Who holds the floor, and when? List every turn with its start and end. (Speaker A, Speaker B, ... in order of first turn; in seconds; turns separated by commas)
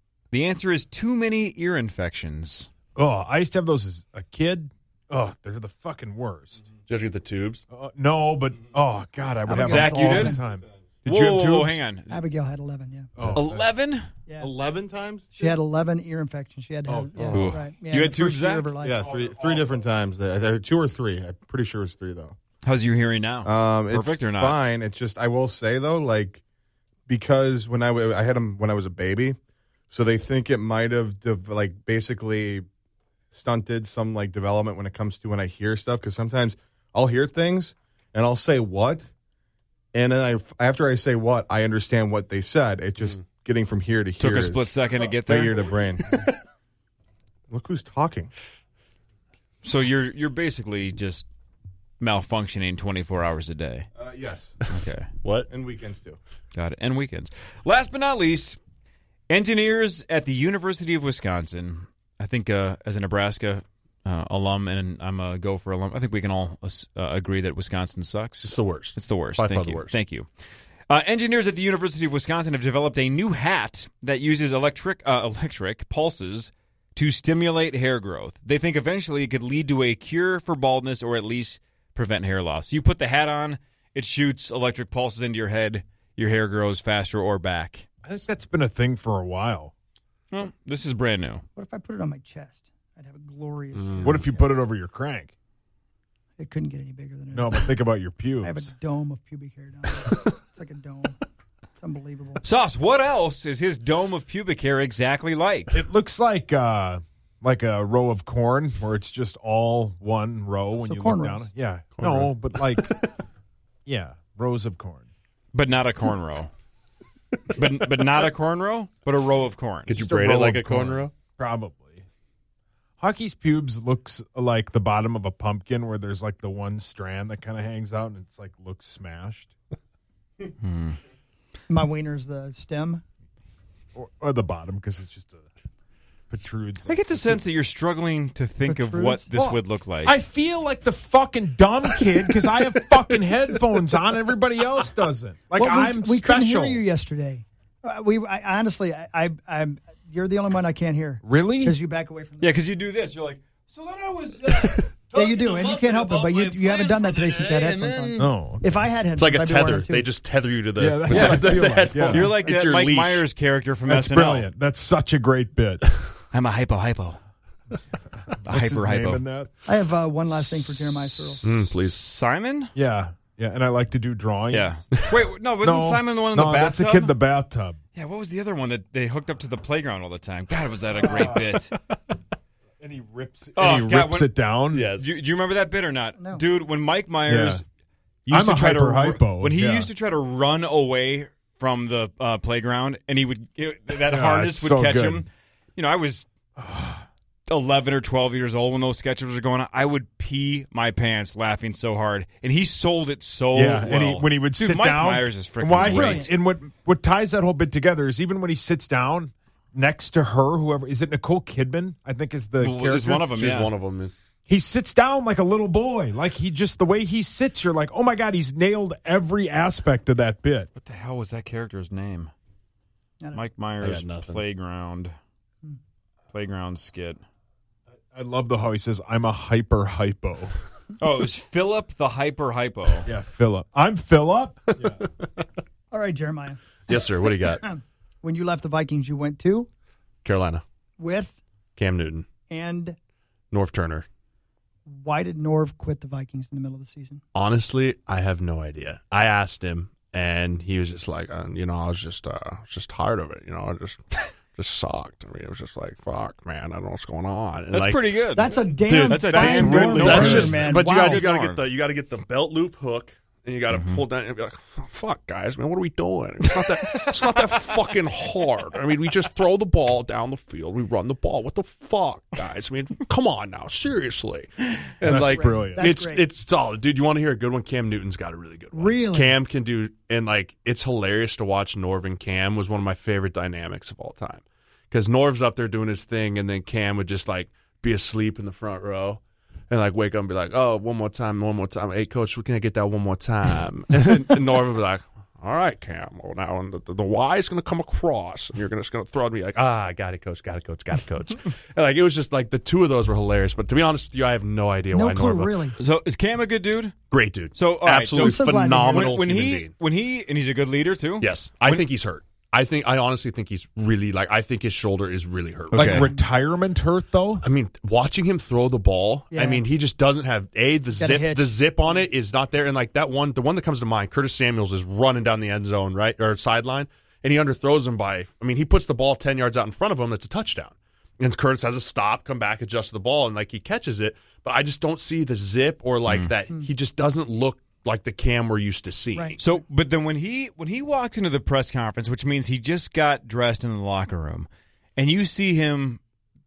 Speaker A: 0.3-2.7, Speaker B: 2.9-6.7, Speaker C: 6.9-7.6, Speaker B: 7.7-11.8, Speaker D: 9.5-10.4, Speaker A: 9.5-10.4, Speaker A: 11.1-12.2, Speaker D: 12.1-13.1, Speaker B: 13.2-13.7, Speaker A: 13.3-14.1, Speaker E: 14.4-15.6, Speaker D: 15.3-19.0, Speaker E: 16.9-17.6, Speaker A: 17.3-18.7, Speaker E: 18.8-22.4, Speaker B: 19.0-19.8, Speaker A: 22.6-24.6, Speaker E: 23.4-26.4, Speaker E: 27.1-29.4, Speaker E: 29.9-32.6, Speaker E: 33.3-39.1, Speaker E: 39.9-46.3, Speaker A: 44.2-45.6, Speaker E: 47.5-48.3, Speaker A: 49.6-51.3, Speaker A: 52.0-53.9, Speaker E: 54.0-54.6, Speaker A: 54.7-55.1, Speaker C: 55.2-55.5, Speaker E: 55.5-56.2, Speaker A: 56.5-58.6, Speaker A: 59.3-70.3, Speaker C: 68.4-69.9, Speaker A: 70.9-87.9, Speaker B: 88.0-89.7, Speaker A: 90.3-91.4, Speaker D: 91.5-94.6, Speaker C: 93.7-94.2, Speaker B: 94.0-95.3, Speaker D: 96.4-97.8, Speaker B: 97.3-98.7, Speaker D: 98.4-101.2, Speaker D: 101.8-102.4, Speaker A: 102.4-105.7, Speaker B: 105.7-113.0, Speaker D: 110.8-111.5, Speaker C: 112.0-112.8, Speaker B: 113.8-115.0, Speaker A: 115.5-116.5, Speaker A: 117.5-119.9, Speaker C: 119.9-121.1, Speaker B: 119.9-122.0, Speaker B: 123.0-129.5, Speaker A: 130.6-131.0, Speaker D: 131.7-133.0, Speaker B: 133.9-135.5, Speaker B: 136.3-137.4, Speaker A: 136.8-140.1, Speaker D: 138.7-139.2, Speaker B: 139.3-146.8, Speaker D: 145.6-152.6, Speaker B: 151.2-151.8, Speaker A: 152.4-157.9, Speaker C: 154.6-154.9, Speaker D: 155.1-160.1, Speaker B: 158.2-158.8, Speaker C: 159.2-163.2, Speaker B: 160.8-162.3, Speaker A: 161.1-164.5, Speaker B: 163.9-165.9, Speaker A: 166.3-167.2, Speaker A: 168.4-169.2, Speaker B: 168.4-169.5, Speaker D: 169.7-171.5, Speaker C: 171.4-172.0, Speaker A: 171.8-172.7, Speaker B: 172.7-174.9, Speaker A: 174.5-177.2, Speaker B: 175.6-177.8, Speaker A: 177.9-181.7, Speaker B: 181.0-181.3, Speaker B: 182.8-184.9, Speaker A: 183.5-184.3, Speaker C: 184.7-185.1, Speaker A: 185.0-187.6, Speaker D: 186.2-186.4, Speaker B: 187.2-187.6, Speaker A: 188.2-196.2, Speaker B: 188.3-189.9, Speaker B: 194.1-195.2, Speaker B: 196.6-197.0, Speaker A: 197.5-206.3, Speaker B: 203.5-213.3, Speaker D: 205.8-206.3, Speaker A: 212.6-213.7, Speaker C: 213.2-214.1, Speaker B: 214.5-220.7, Speaker A: 220.8-222.3, Speaker A: 223.3-225.1, Speaker C: 223.8-224.4, Speaker A: 226.3-227.2, Speaker B: 228.1-230.6, Speaker A: 231.0-233.1, Speaker B: 233.0-235.0, Speaker D: 235.9-239.7, Speaker C: 236.9-237.6, Speaker C: 240.2-240.6, Speaker D: 241.0-241.4, Speaker C: 241.8-242.3, Speaker D: 242.5-242.9, Speaker C: 243.5-244.1, Speaker D: 244.9-247.2, Speaker C: 247.3-305.7, Speaker A: 257.7-261.6, Speaker D: 258.3-261.2, Speaker B: 259.2-260.9, Speaker A: 263.7-264.0, Speaker A: 266.6-267.7, Speaker B: 275.0-275.8, Speaker D: 275.1-276.2, Speaker D: 278.7-279.4, Speaker D: 304.9-305.7, Speaker A: 305.8-306.9, Speaker C: 307.1-309.7, Speaker A: 307.5-311.7, Speaker D: 308.1-309.2, Speaker C: 311.2-316.1, Speaker B: 315.7-317.4, Speaker A: 315.7-316.1, Speaker C: 317.4-339.4, Speaker D: 319.3-319.6, Speaker D: 321.0-322.0, Speaker D: 339.1-339.4, Speaker A: 339.4-346.0